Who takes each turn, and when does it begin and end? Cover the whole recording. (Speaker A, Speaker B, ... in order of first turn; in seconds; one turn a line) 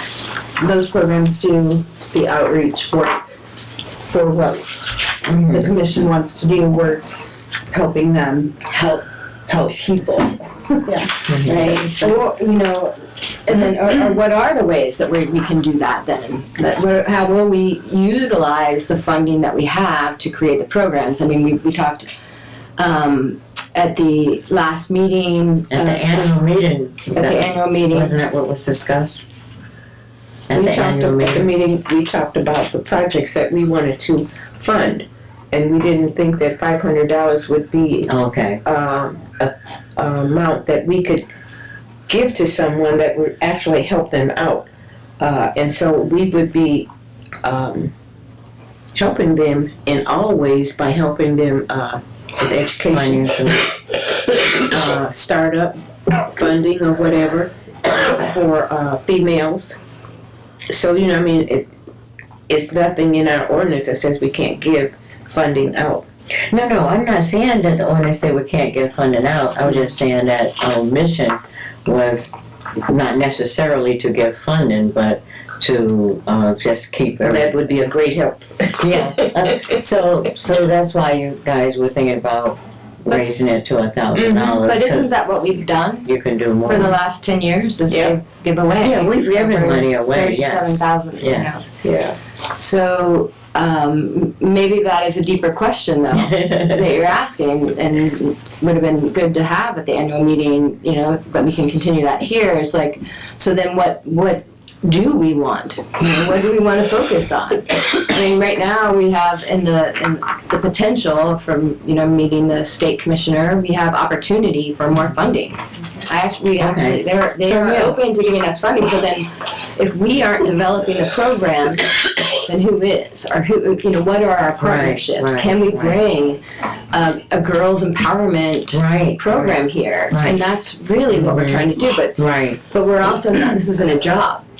Speaker A: 0.6-7.1
Speaker B: 5.2-5.7
Speaker A: 7.7-8.6
Speaker C: 8.7-9.1
Speaker A: 9.5-9.9
Speaker C: 9.6-10.3
Speaker A: 10.7-12.1
Speaker B: 11.3-11.6
Speaker C: 11.4-22.1
Speaker C: 22.8-26.3
Speaker B: 25.7-29.3
Speaker C: 27.1-28.1
Speaker B: 30.5-31.5
Speaker D: 30.5-38.1
Speaker B: 38.1-38.6
Speaker D: 38.6-41.2
Speaker D: 42.1-44.7
Speaker D: 45.2-46.9
Speaker D: 47.4-47.9
Speaker D: 48.9-53.3
Speaker B: 52.9-53.6
Speaker D: 54.6-59.8
Speaker D: 60.7-61.7
Speaker D: 62.5-66.1
Speaker B: 66.5-77.5
Speaker D: 77.2-79.7
Speaker B: 78.8-85.1
Speaker D: 84.2-84.6
Speaker C: 84.4-86.1
Speaker B: 86.0-86.9
Speaker C: 86.6-91.7
Speaker D: 87.9-88.1
Speaker B: 88.8-91.7
Speaker D: 91.8-92.2
Speaker C: 92.5-126.4
Speaker B: 96.1-96.9
Speaker B: 116.6-118.0
Speaker B: 124.6-126.0
Speaker C: 126.9-134.4
Speaker B: 128.7-129.6
Speaker B: 130.1-130.4
Speaker B: 131.1-132.6